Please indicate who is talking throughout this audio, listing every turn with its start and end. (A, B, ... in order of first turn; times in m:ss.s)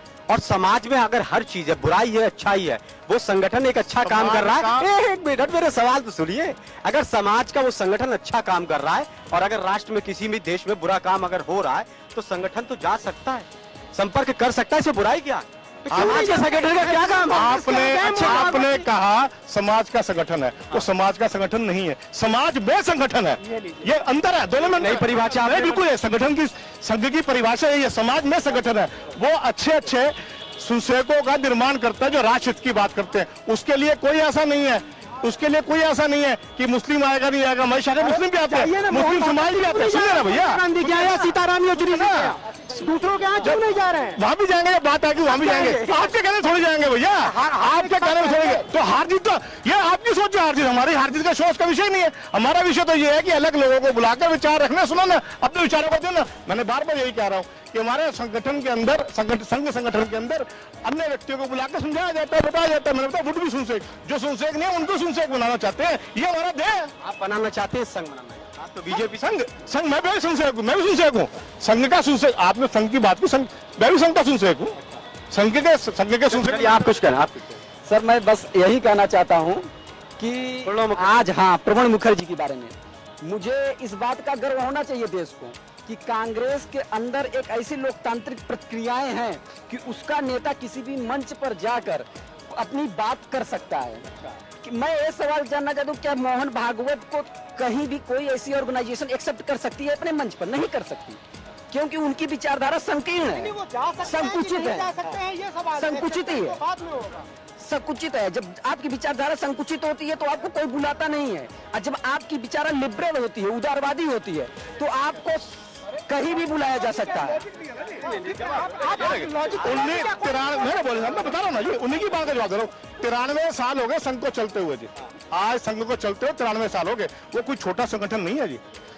0:00.3-0:18.6 A
0:04.0-0:04.9 B
0:15.9-0:18.8 C
0:15.9-0:41.2 B
0:24.7-0:25.9 A
0:38.0-0:44.2 C
0:41.7-0:42.3 B
0:44.1-1:06.9 B
0:45.4-0:45.8 D
0:47.2-0:48.6 C
1:07.0-1:09.2 A
1:08.9-1:14.8 B
1:15.3-1:16.8 B
1:16.3-1:17.6 A
1:17.8-1:34.0 D
1:20.6-1:21.2 A
1:34.6-1:41.2 D
1:41.7-1:45.1 D
1:43.3-1:47.2 C
1:45.8-1:46.6 D
1:47.6-1:57.4 D
1:58.0-2:00.7 C
1:58.1-1:58.6 A
1:59.0-2:08.6 B